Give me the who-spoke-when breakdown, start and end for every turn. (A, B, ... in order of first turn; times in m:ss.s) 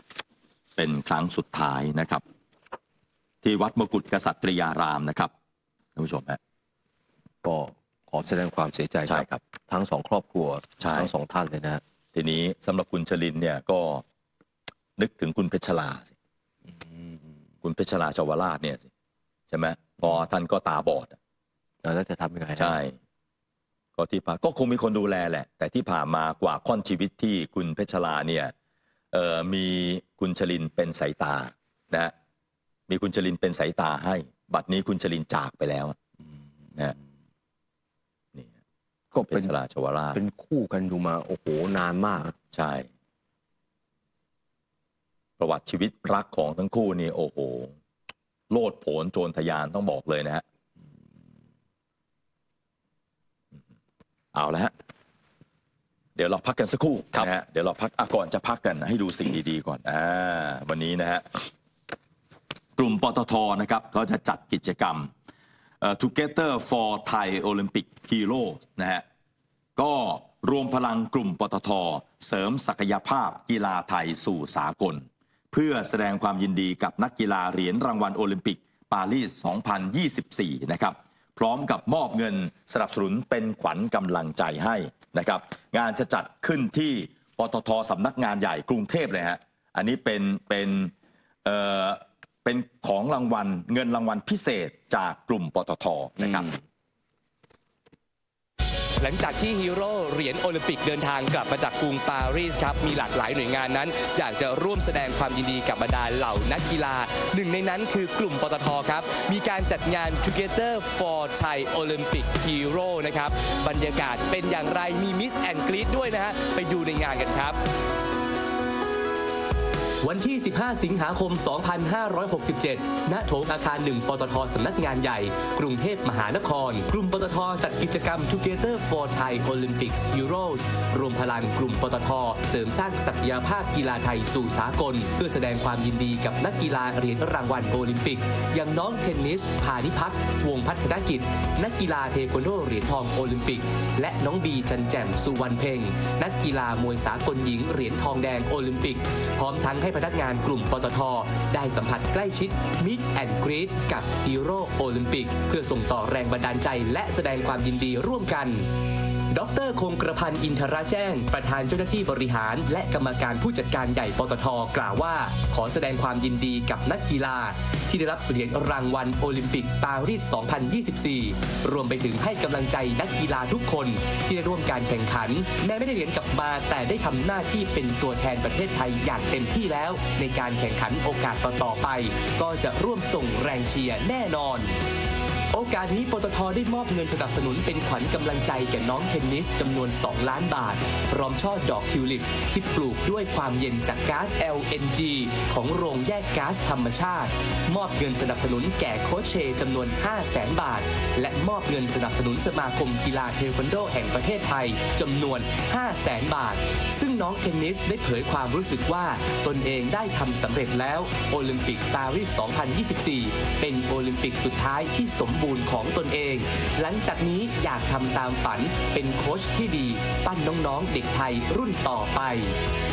0:00.8-0:02.2 A
0:03.4-0:05.3 A
0:06.0-0:06.4 A
0:07.4-0:11.8 B
0:09.1-0:09.4 A
0:10.8-0:11.1 A
0:12.1-0:14.0 A
0:15.0-0:16.1 A
0:17.6-0:18.9 A
0:19.5-0:21.2 A
0:21.8-0:22.8 B
0:22.6-0:23.0 A
0:24.0-0:28.5 A
0:29.1-0:32.1 A
0:32.9-0:36.0 A
0:39.1-0:39.5 B
0:39.2-0:40.2 A
0:40.1-0:42.3 B
0:42.5-0:42.9 A
0:45.4-0:47.7 A
0:48.5-0:50.4 A
0:54.3-0:54.7 A
0:56.2-1:01.5 A
1:02.8-1:05.1 A
1:05.8-1:09.0 A
1:09.8-1:30.9 A
1:31.4-1:36.6 A
1:39.0-1:57.6 C
2:00.0-2:38.7 C
2:39.3-3:04.8 C
3:05.5-3:42.6 C